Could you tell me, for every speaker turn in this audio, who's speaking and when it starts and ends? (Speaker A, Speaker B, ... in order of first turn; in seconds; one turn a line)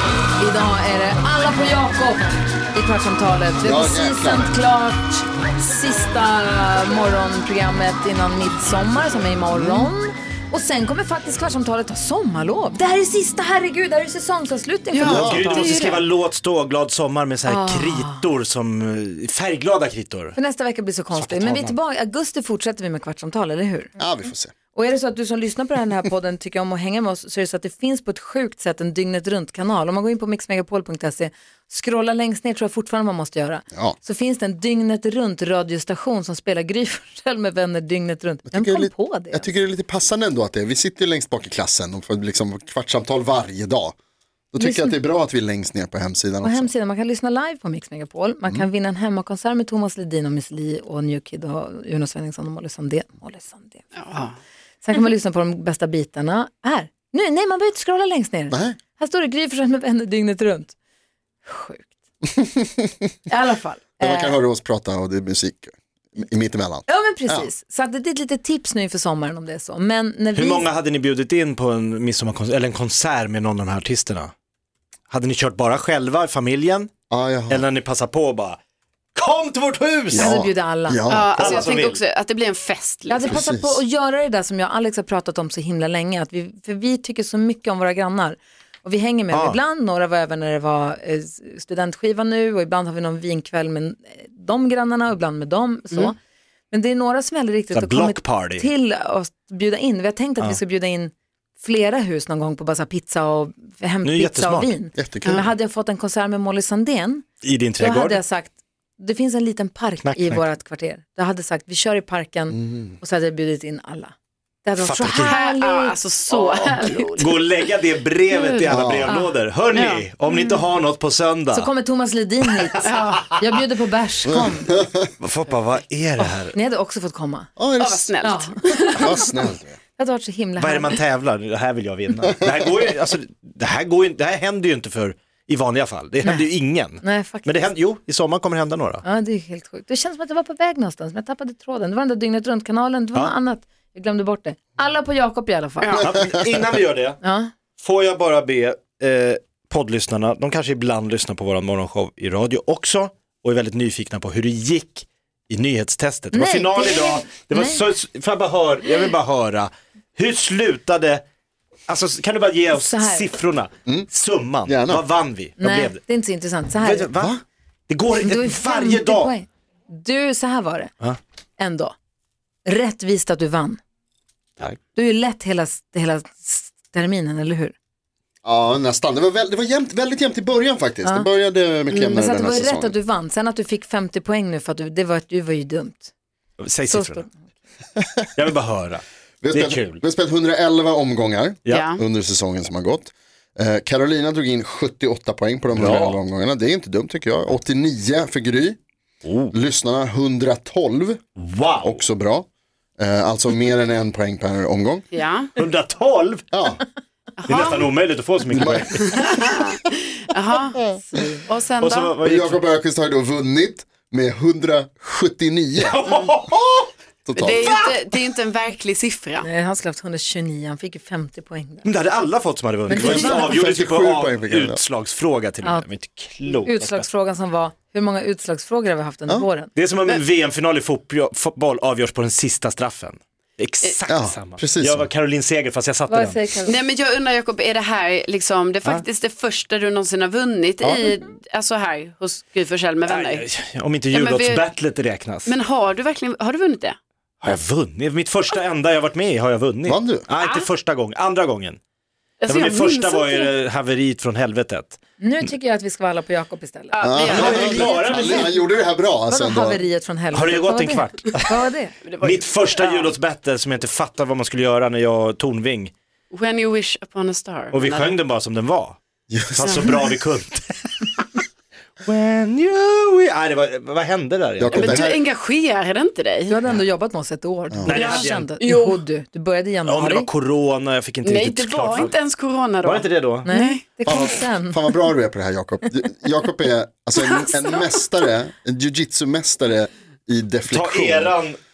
Speaker A: 0.4-16.0
Speaker B: 3.6-4.5
Speaker B: 9.6-9.9
Speaker C: 14.9-16.0
Speaker B: 15.0-15.6
Speaker D: 15.0-20.4
Speaker A: 17.5-18.2
Speaker A: 20.4-23.9
Speaker D: 21.1-21.8
Speaker B: 24.0-24.5
Speaker A: 24.7-39.5
Speaker B: 38.5-44.0
Speaker B: 44.5-46.7
Speaker A: 44.6-45.0
Speaker A: 46.4-53.8
Speaker C: 53.9-54.4
Speaker A: 54.9-60.7
Speaker B: 58.5-58.8
Speaker A: 61.5-61.9
Speaker B: 62.4-62.9
Speaker A: 63.3-64.4
Speaker B: 64.0-67.5
Speaker A: 66.9-70.7
Speaker D: 70.3-74.3
Speaker D: 75.1-76.9
Speaker B: 77.1-77.6
Speaker D: 77.5-78.6
Speaker D: 79.2-80.4
Speaker B: 80.1-81.7
Speaker A: 80.2-81.0
Speaker C: 81.1-83.3
Speaker D: 81.4-82.0
Speaker A: 83.1-96.2
Speaker B: 83.2-83.8
Speaker D: 89.3-89.6
Speaker A: 96.7-107.2
Speaker D: 97.7-98.7
Speaker D: 104.0-104.7
Speaker B: 105.0-105.5
Speaker D: 107.4-108.2
Speaker A: 107.8-114.1
Speaker D: 110.0-110.4
Speaker B: 112.5-113.0
Speaker A: 114.7-117.2
Speaker D: 114.8-115.3
Speaker C: 115.1-117.4
Speaker D: 117.2-121.7
Speaker C: 118.3-118.8
Speaker B: 118.7-119.2
Speaker A: 119.1-119.4
Speaker C: 119.7-120.0
Speaker A: 120.3-120.6
Speaker A: 121.5-124.8
Speaker C: 122.8-123.2
Speaker B: 124.3-125.1
Speaker D: 125.2-126.5
Speaker A: 126.2-127.5
Speaker B: 127.6-128.2
Speaker C: 127.8-129.0
Speaker A: 128.2-129.3
Speaker B: 128.9-129.8
Speaker A: 130.0-131.0
Speaker D: 130.6-139.0
Speaker B: 132.2-132.7
Speaker A: 137.0-137.7
Speaker A: 139.0-146.0
Speaker C: 145.8-146.1
Speaker D: 146.0-147.2
Speaker B: 146.1-146.4
Speaker A: 147.2-147.5
Speaker D: 147.8-161.2
Speaker A: 156.3-157.8
Speaker D: 161.9-166.0
Speaker A: 162.7-163.3
Speaker B: 164.7-165.0
Speaker A: 165.6-167.1
Speaker D: 166.8-169.3
Speaker A: 168.2-170.9
Speaker A: 171.6-171.9
Speaker A: 172.7-173.8
Speaker A: 174.9-177.8
Speaker B: 178.4-182.9
Speaker C: 181.9-182.2
Speaker A: 182.1-186.1
Speaker D: 186.6-187.2
Speaker A: 186.9-187.3
Speaker D: 188.3-190.0
Speaker B: 189.4-198.8
Speaker C: 191.7-192.0
Speaker D: 195.8-196.2
Speaker D: 199.2-199.6
Speaker B: 199.5-201.2
Speaker D: 201.4-202.0
Speaker B: 201.8-202.5
Speaker B: 203.0-205.1
Speaker C: 205.1-205.5
Speaker D: 205.6-206.5
Speaker B: 206.5-206.8
Speaker C: 207.4-207.9
Speaker D: 207.5-209.2
Speaker B: 208.5-209.3
Speaker C: 209.1-210.8
Speaker A: 211.0-211.4
Speaker C: 211.5-212.1
Speaker D: 211.8-212.6
Speaker B: 212.2-216.0
Speaker D: 215.8-216.9
Speaker B: 217.3-217.8
Speaker C: 217.4-219.5
Speaker A: 219.4-221.9
Speaker D: 221.8-227.1
Speaker B: 222.9-224.8
Speaker A: 222.9-223.6
Speaker A: 226.5-229.7
Speaker D: 229.8-236.4
Speaker B: 234.1-235.1
Speaker A: 236.1-236.8
Speaker C: 236.7-243.5
Speaker D: 243.1-245.6
Speaker C: 244.1-244.6
Speaker C: 245.5-247.0
Speaker D: 247.4-251.8
Speaker B: 249.8-250.3
Speaker C: 250.4-250.7
Speaker C: 252.4-253.5
Speaker D: 252.5-255.0
Speaker A: 255.2-257.0
Speaker C: 256.9-258.3
Speaker B: 257.0-259.8
Speaker D: 257.2-258.5
Speaker A: 259.3-261.9
Speaker D: 260.3-261.6
Speaker C: 262.1-263.1
Speaker D: 262.2-265.9
Speaker C: 266.3-268.2
Speaker D: 267.7-269.0
Speaker B: 269.3-270.1
Speaker D: 269.6-271.3
Speaker D: 272.0-275.1
Speaker B: 274.6-275.2
Speaker C: 274.7-276.6
Speaker A: 276.5-280.3
Speaker D: 277.9-278.5
Speaker C: 277.9-279.0
Speaker D: 279.9-282.1
Speaker C: 281.2-283.8
Speaker D: 282.8-283.5
Speaker A: 283.5-285.1
Speaker B: 284.1-291.4
Speaker C: 287.2-288.0
Speaker D: 290.7-291.6